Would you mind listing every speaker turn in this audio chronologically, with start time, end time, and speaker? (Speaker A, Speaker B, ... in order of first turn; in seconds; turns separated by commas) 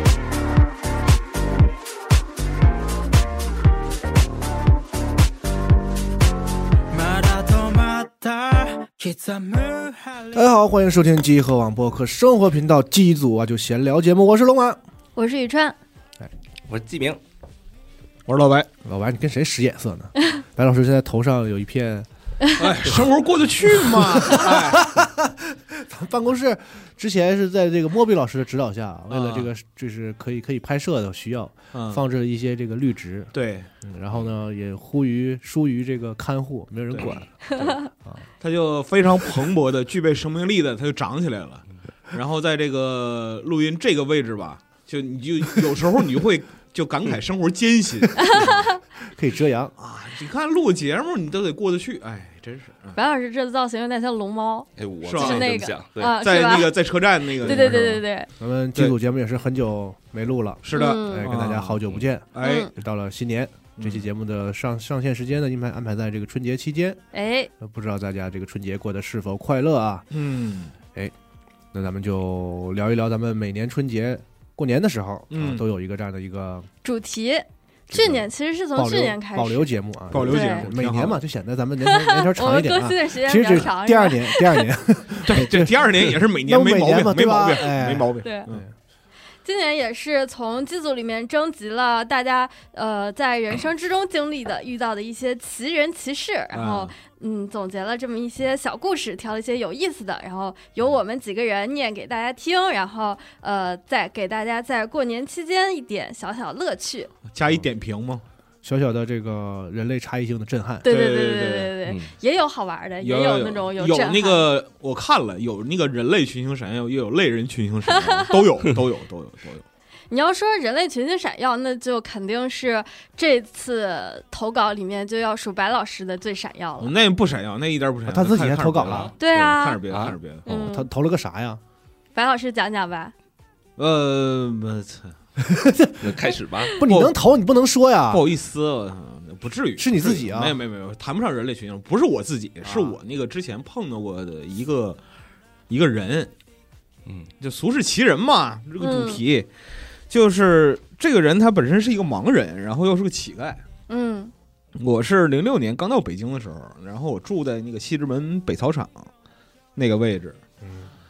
Speaker A: 6.9-10.5, Speaker B: 10.3-14.8, Speaker C: 15.2-15.8, Speaker D: 16.7-17.2, Speaker E: 18.2-18.7, Speaker B: 18.8-22.1, Speaker E: 22.6-25.1, Speaker B: 23.9-25.3, Speaker B: 25.8-37.2, Speaker E: 29.1-29.5, Speaker E: 31.7-32.0, Speaker E: 33.3-33.7, Speaker E: 36.9-37.9, Speaker E: 38.4-48.7, Speaker C: 48.2-48.7, Speaker B: 49.1-49.7, Speaker E: 49.8-53.0, Speaker C: 52.9-56.7, Speaker D: 54.8-56.2, Speaker E: 55.0-55.5, Speaker E: 56.1-58.0, Speaker C: 57.3-58.3, Speaker B: 58.4-67.0, Speaker E: 60.6-62.7, Speaker C: 60.7-61.3, Speaker C: 62.4-62.7, Speaker E: 63.8-64.1, Speaker C: 67.1-67.5, Speaker B: 67.6-70.1, Speaker E: 70.1-70.7, Speaker B: 71.7-76.7, Speaker E: 75.3-75.7, Speaker C: 76.8-80.7, Speaker E: 77.9-78.2, Speaker B: 78.7-88.7, Speaker E: 80.1-81.2, Speaker C: 81.8-84.7, Speaker E: 85.2-88.6, Speaker C: 88.2-88.5, Speaker C: 89.4-107.1, Speaker E: 96.5-96.9, Speaker E: 107.3-108.2, Speaker B: 108.6-110.8, Speaker E: 110.8-111.7, Speaker C: 110.8-114.5, Speaker D: 111.8-112.1, Speaker E: 113.0-119.6, Speaker C: 117.9-118.4, Speaker C: 120.1-126.9, Speaker E: 126.8-130.5, Speaker B: 128.1-129.1, Speaker C: 129.2-129.8, Speaker D: 129.9-130.1, Speaker C: 130.4-130.9, Speaker B: 130.5-131.6, Speaker C: 132.1-133.1, Speaker E: 133.8-135.2, Speaker B: 135.4-136.0, Speaker D: 136.0-136.7, Speaker B: 136.8-138.2, Speaker E: 136.8-137.2, Speaker E: 138.1-145.0, Speaker B: 139.8-140.6, Speaker E: 145.7-146.3, Speaker E: 147.4-149.5, Speaker C: 148.8-149.2, Speaker E: 150.1-153.6, Speaker C: 153.9-154.3, Speaker E: 154.7-159.1, Speaker E: 159.8-160.4, Speaker B: 160.6-160.9